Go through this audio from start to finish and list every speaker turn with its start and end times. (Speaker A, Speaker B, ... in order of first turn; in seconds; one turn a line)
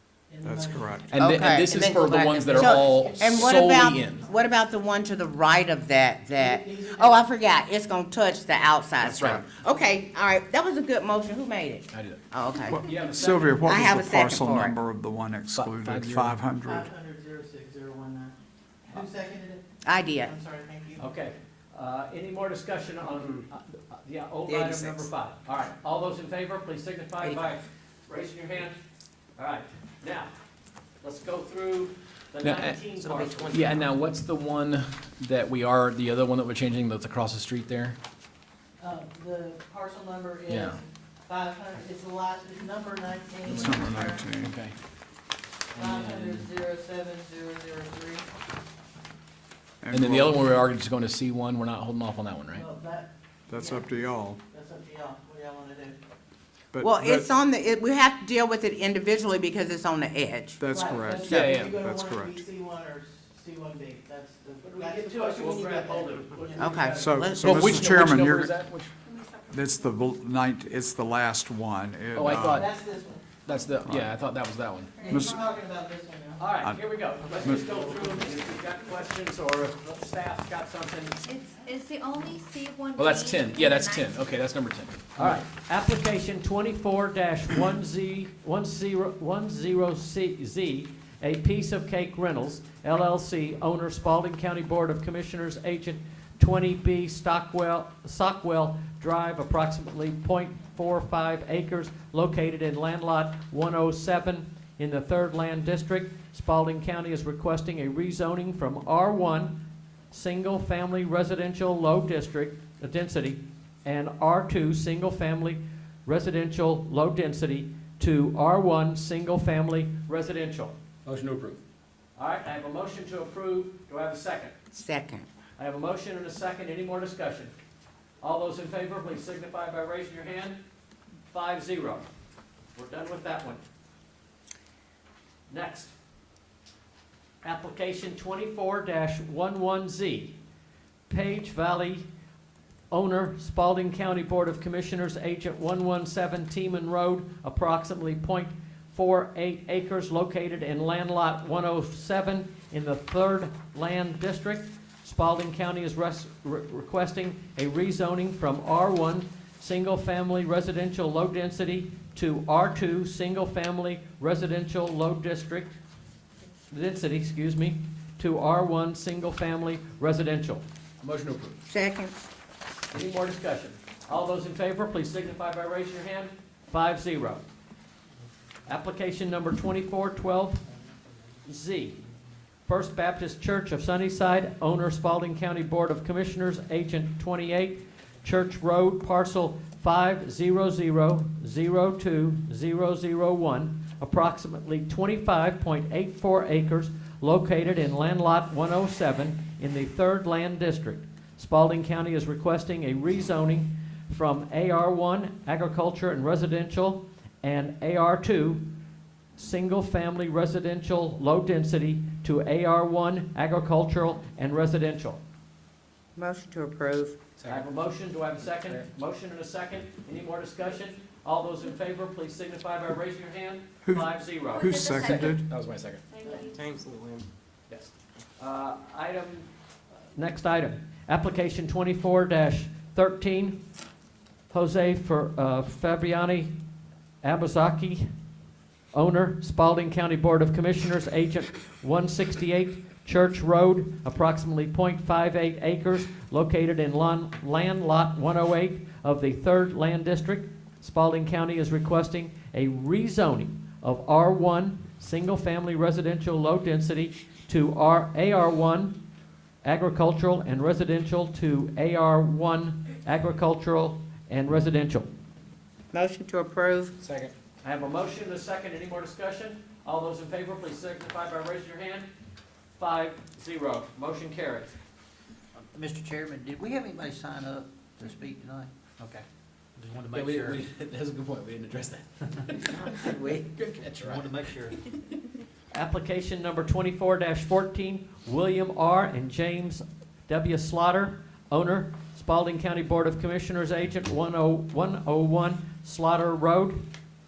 Speaker A: 0.3-1.0
Speaker B: 0.4-1.1
Speaker C: 1.1-4.2
Speaker D: 1.2-12.8
Speaker A: 2.5-3.3
Speaker A: 6.3-7.2
Speaker C: 9.0-9.5
Speaker C: 11.9-12.2
Speaker B: 12.7-16.9
Speaker C: 12.8-13.8
Speaker D: 13.6-14.8
Speaker C: 15.5-16.4
Speaker A: 16.6-21.0
Speaker D: 19.8-20.3
Speaker E: 21.0-28.8
Speaker D: 24.5-25.0
Speaker D: 27.2-27.5
Speaker E: 29.4-30.3
Speaker E: 31.0-33.7
Speaker C: 32.4-32.8
Speaker F: 33.0-33.9
Speaker C: 33.5-38.0
Speaker A: 38.8-44.2
Speaker C: 40.5-40.8
Speaker C: 43.5-44.8
Speaker B: 43.5-44.6
Speaker C: 45.8-46.5
Speaker A: 45.8-48.3
Speaker B: 49.8-50.4
Speaker C: 49.9-52.6
Speaker A: 52.5-53.9
Speaker B: 53.5-54.4
Speaker A: 54.5-56.0
Speaker B: 56.7-57.3
Speaker D: 56.8-60.6
Speaker B: 60.6-62.4
Speaker A: 60.6-66.9
Speaker C: 61.3-61.8
Speaker D: 61.3-61.6
Speaker E: 64.7-66.9
Speaker D: 66.6-67.9
Speaker B: 67.0-68.6
Speaker C: 67.4-68.9
Speaker G: 69.1-69.5
Speaker B: 69.5-72.7
Speaker C: 72.1-72.7
Speaker A: 72.5-73.3
Speaker C: 73.5-75.0
Speaker B: 73.9-74.1
Speaker B: 75.1-75.4
Speaker A: 75.1-76.5
Speaker E: 76.4-81.2
Speaker G: 81.3-84.1
Speaker C: 83.0-85.4
Speaker E: 85.2-120.8
Speaker C: 121.1-121.6
Speaker E: 122.2-124.5
Speaker D: 124.7-125.3
Speaker E: 125.6-127.5
Speaker E: 128.2-130.6
Speaker E: 131.3-132.1
Speaker E: 132.8-133.6
Speaker E: 135.5-135.9
Speaker E: 137.4-140.4
Speaker E: 141.1-142.1
Speaker E: 142.9-165.8
Speaker E: 166.7-170.6
Speaker C: 171.0-171.6
Speaker D: 171.7-172.2
Speaker E: 172.9-177.4
Speaker E: 178.7-180.6
Speaker E: 181.4-182.0
Speaker E: 182.7-208.7
Speaker E: 209.4-215.2
Speaker D: 216.2-217.2
Speaker C: 217.4-217.7
Speaker E: 217.5-224.7
Speaker B: 223.8-225.4
Speaker G: 224.6-225.2
Speaker C: 224.9-226.1
Speaker G: 226.1-226.7
Speaker A: 226.2-226.5
Speaker E: 227.7-229.5
Speaker E: 230.2-233.6
Speaker E: 234.5-236.5
Speaker E: 237.2-238.1
Speaker E: 238.9-259.0
Speaker E: 259.6-265.1
Speaker D: 265.9-266.9
Speaker C: 267.0-267.3
Speaker E: 267.6-272.1
Speaker E: 272.8-274.8
Speaker F: 275.7-279.2
Speaker F: 279.8-280.6
Speaker C: 280.1-284.6
Speaker F: 282.7-283.5
Speaker F: 284.1-284.8
Speaker E: 285.7-296.9